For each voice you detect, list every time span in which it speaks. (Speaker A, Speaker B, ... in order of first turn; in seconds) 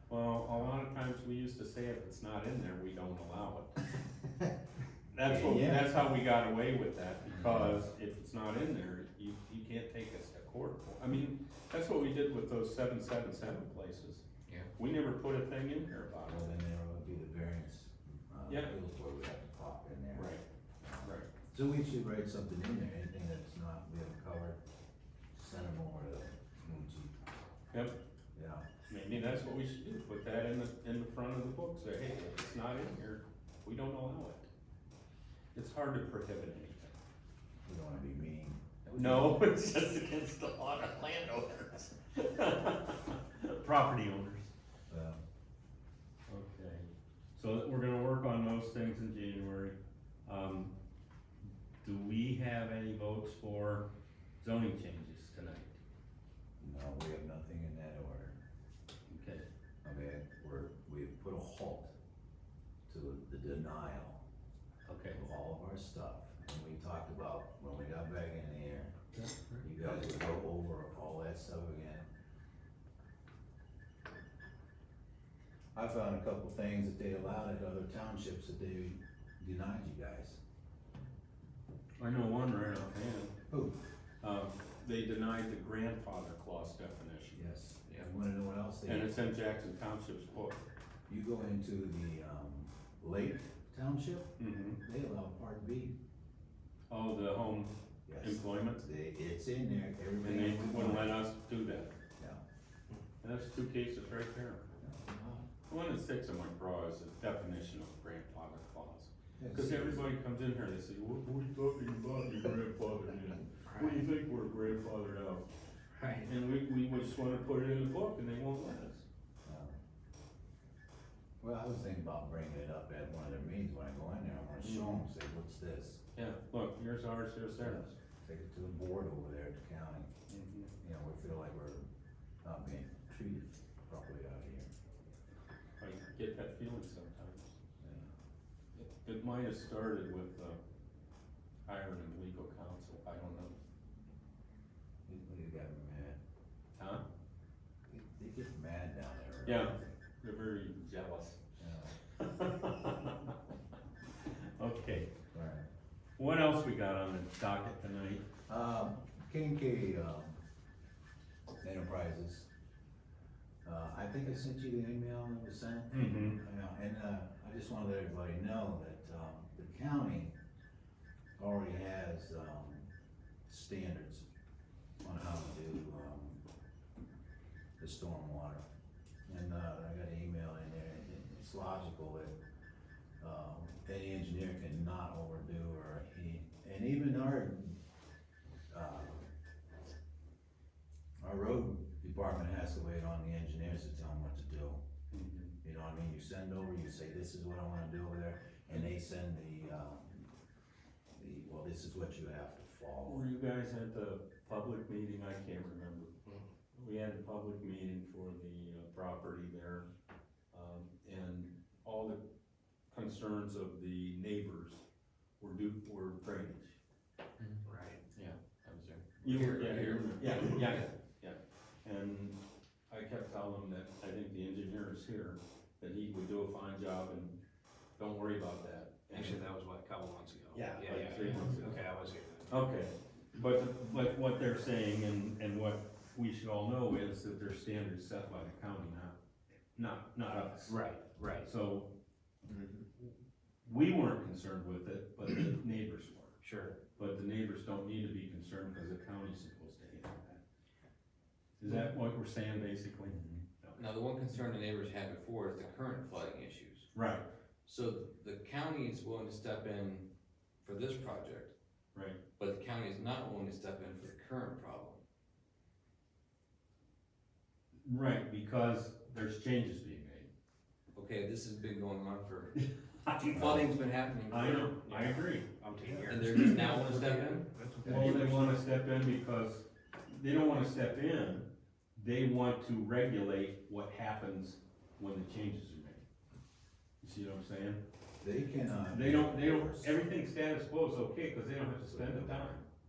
Speaker A: 0.1-3.8, 5.1-14.2, 14.8-16.5, 18.5-18.7, 20.1-20.4, 21.0-21.3, 28.9-34.5, 35.5-36.9, 38.9-44.5, 46.3-50.7, 51.8-53.9, 54.4-55.8, 59.1-59.4, 64.9-65.2, 82.0-83.3, 84.2-87.5, 88.8-90.6, 94.4-94.8, 96.9-98.8, 100.2-101.9, 103.2-104.7, 105.7-115.4, 116.2-119.0, 124.6-125.0, 126.1-127.9, 130.3-130.7, 135.8-137.5, 138.7-140.6, 141.7-143.6, 146.8-147.0, 149.4-151.4, 152.2-153.3, 154.3-155.1, 156.2-158.3, 165.9-166.4, 195.1-195.5, 203.0-206.1, 206.7-209.8, 210.5-212.2, 212.9-214.8, 215.4-216.8, 219.2-222.4, 222.9-227.4, 228.0-229.4, 230.5-231.9, 232.5-239.2, 239.7-240.8, 241.4-241.9, 243.6-246.4, 247.0-250.4, 251.6-253.9, 256.9-257.2, 267.8-270.3, 273.0-273.7, 274.3-275.5, 276.2-276.9, 277.8-286.0, 287.0-287.8, 288.9-292.6
Speaker B: 5.2-6.1, 7.3-7.8, 16.2-24.6, 25.3-27.2, 28.3-28.8, 37.6-39.4, 44.9-45.2, 56.6-58.4, 59.8-61.9, 62.9-64.2, 65.1-69.0, 69.6-72.1, 75.7-80.4, 83.5-83.8, 87.3-89.2, 91.1-96.0, 98.1-101.2, 102.2-102.4, 104.8-105.5, 109.4-110.1, 119.4-119.8, 121.4-126.0, 127.6-130.1, 130.8-131.8, 132.4-134.7, 137.8-138.1, 145.1-146.2, 147.9-150.0, 151.6-151.9, 155.3-155.7, 158.5-160.4, 161.6-162.5, 163.6-170.3, 171.4-172.9, 173.5-174.2, 175.0-176.4, 177.8-178.6, 179.3-182.3, 183.2-187.8, 188.7-189.3, 191.2-194.8, 195.6-200.3, 201.1-203.3, 273.3-273.7, 277.8-278.1, 288.2-290.0, 291.6-292.6
Speaker C: 113.7-114.0, 116.0-116.3, 217.6-218.0, 229.1-232.7, 240.7-241.5, 242.5-242.8, 246.4-246.8, 274.9-278.6
Speaker D: 217.4-220.9, 253.8-256.9, 257.6-260.1, 260.6-261.5, 262.4-265.0, 270.9-272.6, 273.3-274.8, 276.1-278.4